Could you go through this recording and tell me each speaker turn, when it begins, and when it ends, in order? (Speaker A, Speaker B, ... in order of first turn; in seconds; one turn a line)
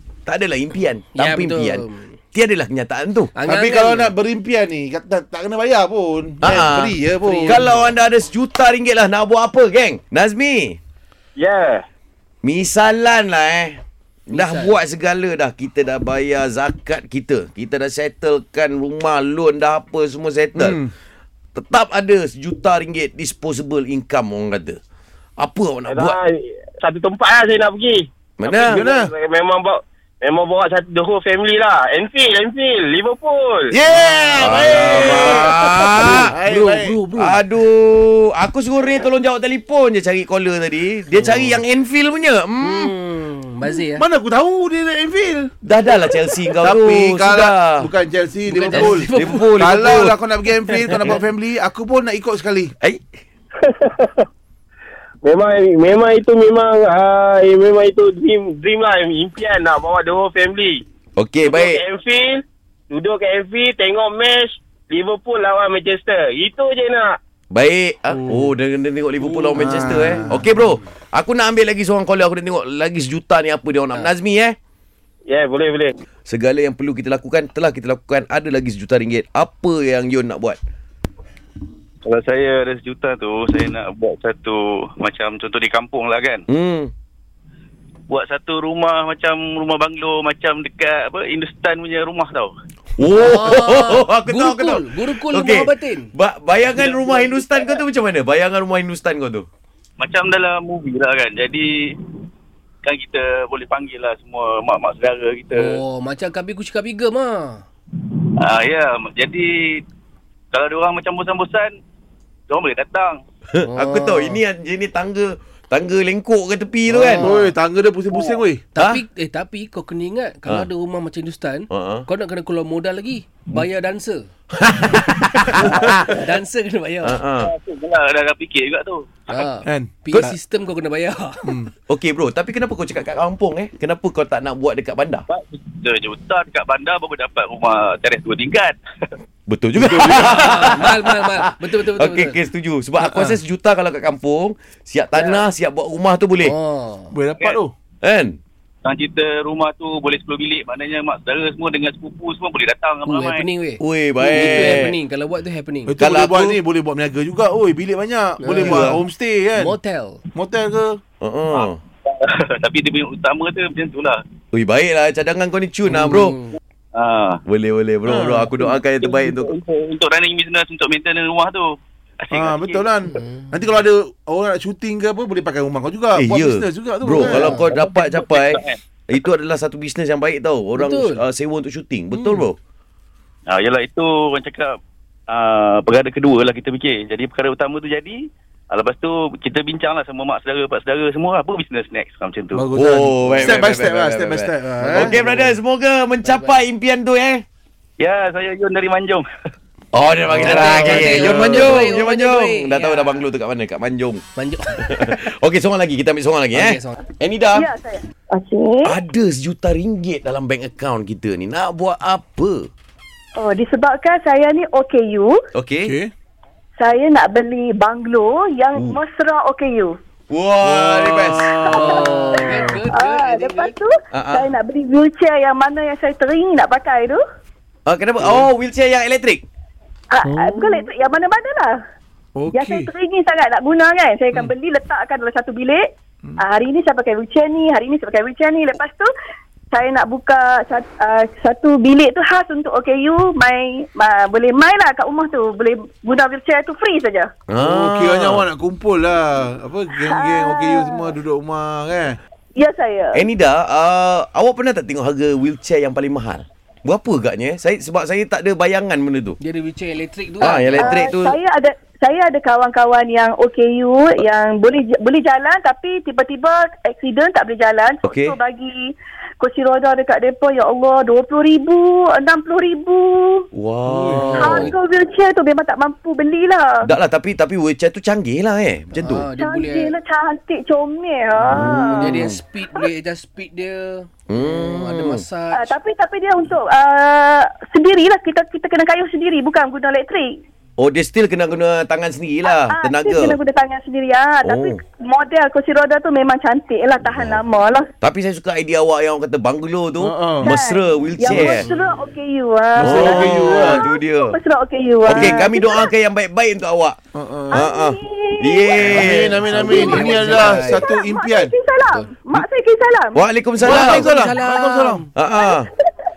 Speaker A: 0.2-3.3
Speaker B: 1.1-2.2
Speaker B: 3.3-4.1
Speaker C: 3.5-7.7
Speaker A: 6.4-10.8
Speaker B: 7.2-7.7
Speaker D: 11.3-11.8
Speaker A: 12.4-20.8
Speaker B: 14.3-14.8
Speaker C: 20.6-20.9
Speaker A: 21.5-24.8
Speaker A: 25.4-26.2
Speaker D: 25.9-33.8
Speaker A: 28.4-28.8
Speaker C: 28.7-29.1
Speaker C: 33.7-37.0
Speaker B: 33.9-34.4
Speaker D: 34.4-35.5
Speaker A: 34.4-36.4
Speaker B: 36.5-37.3
Speaker A: 37.2-42.9
Speaker B: 41.1-41.6
Speaker B: 42.6-44.0
Speaker C: 43.9-45.5
Speaker A: 45.6-47.9
Speaker C: 46.6-52.7
Speaker B: 48.5-49.5
Speaker A: 48.7-50.1
Speaker A: 50.9-51.2
Speaker D: 53.6-54.2
Speaker D: 55.2-60.8
Speaker A: 61.2-61.8
Speaker D: 61.4-67.2
Speaker A: 67.5-74.6
Speaker C: 68.1-68.5
Speaker C: 69.2-70.5
Speaker D: 75.3-76.0
Speaker A: 76.3-80.6
Speaker E: 82.0-86.4
Speaker A: 86.5-86.9
Speaker E: 88.1-92.5
Speaker A: 93.0-99.5
Speaker B: 93.1-96.1
Speaker E: 96.7-97.7
Speaker E: 100.0-102.0
Speaker E: 102.8-105.8
Speaker B: 105.5-107.6
Speaker E: 108.4-109.8
Speaker E: 110.5-111.7
Speaker E: 112.5-113.2
Speaker A: 113.5-117.3
Speaker B: 113.6-114.4
Speaker C: 116.9-118.6
Speaker B: 117.0-117.5
Speaker E: 118.1-118.4
Speaker B: 118.7-124.3
Speaker A: 121.7-122.0
Speaker A: 124.6-126.1
Speaker B: 125.6-127.2
Speaker A: 127.0-127.5
Speaker E: 127.4-129.3
Speaker B: 129.3-131.5
Speaker C: 129.6-130.3
Speaker C: 131.4-131.7
Speaker A: 131.9-135.2
Speaker E: 135.3-138.8
Speaker A: 139.5-146.5
Speaker E: 139.9-140.5
Speaker B: 140.0-142.4
Speaker B: 146.4-147.2
Speaker C: 147.1-147.7
Speaker A: 148.0-148.4
Speaker E: 148.8-153.4
Speaker B: 153.1-155.9
Speaker A: 153.8-154.9
Speaker C: 155.9-159.8
Speaker A: 156.0-156.6
Speaker B: 158.4-158.9
Speaker A: 158.6-159.0
Speaker B: 159.6-160.2
Speaker C: 160.3-161.0
Speaker A: 161.2-161.8
Speaker E: 161.5-164.2
Speaker A: 164.5-166.3
Speaker B: 165.8-166.6
Speaker E: 166.9-167.4
Speaker A: 167.5-169.5
Speaker C: 168.1-168.5
Speaker E: 168.6-172.8
Speaker C: 172.3-177.6
Speaker B: 173.1-173.6
Speaker A: 176.2-182.6
Speaker B: 177.2-177.7
Speaker E: 177.7-178.8
Speaker B: 180.8-181.2
Speaker C: 182.1-182.5
Speaker E: 183.5-184.8
Speaker E: 185.3-192.6
Speaker C: 192.5-195.6
Speaker A: 192.8-197.4
Speaker B: 196.2-196.6
Speaker E: 198.0-199.2
Speaker A: 199.9-204.2
Speaker B: 200.3-203.2
Speaker C: 200.4-200.7
Speaker E: 200.5-201.4
Speaker B: 204.3-205.2
Speaker A: 204.8-207.7
Speaker B: 206.5-207.0
Speaker F: 207.5-208.9
Speaker A: 208.8-212.7
Speaker F: 213.4-215.3
Speaker A: 215.5-215.9
Speaker C: 215.8-216.1
Speaker F: 216.8-219.9
Speaker A: 220.3-222.1
Speaker C: 220.6-221.7
Speaker F: 221.6-227.2
Speaker B: 221.8-223.7
Speaker C: 222.4-222.8
Speaker A: 224.1-224.5
Speaker A: 227.9-229.4
Speaker C: 228.2-228.5
Speaker F: 230.1-231.8
Speaker C: 230.2-230.8
Speaker C: 232.3-232.9
Speaker F: 232.5-235.8
Speaker F: 236.4-239.1
Speaker F: 239.7-247.3
Speaker A: 247.5-248.4
Speaker C: 247.6-252.2
Speaker F: 250.0-251.0
Speaker F: 252.6-253.2
Speaker A: 253.1-259.4
Speaker B: 259.4-261.1
Speaker A: 260.4-261.4
Speaker F: 260.4-273.4
Speaker A: 268.0-268.3
Speaker A: 273.5-274.7
Speaker C: 273.9-274.3
Speaker B: 274.1-274.7
Speaker F: 274.4-276.8
Speaker A: 276.8-279.2
Speaker B: 278.9-279.9
Speaker F: 279.4-282.9
Speaker A: 281.5-282.4
Speaker B: 281.7-285.7
Speaker A: 284.3-285.2
Speaker F: 285.5-290.3
Speaker A: 290.8-293.4
Speaker F: 292.5-297.9
Speaker A: 294.4-294.8
Speaker A: 297.0-297.4
Speaker A: 298.0-301.7
Speaker C: 300.0-300.5
Speaker F: 300.4-305.9
Speaker C: 301.3-301.6
Speaker C: 302.7-303.8
Speaker A: 302.8-304.4
Speaker A: 305.0-307.0
Speaker C: 305.1-305.5
Speaker C: 307.1-307.6
Speaker F: 307.5-313.2
Speaker A: 307.5-310.0
Speaker C: 308.8-311.5
Speaker B: 309.0-310.8
Speaker A: 313.1-314.2
Speaker C: 313.6-315.0
Speaker B: 313.7-315.1
Speaker A: 315.1-315.7
Speaker F: 315.4-315.9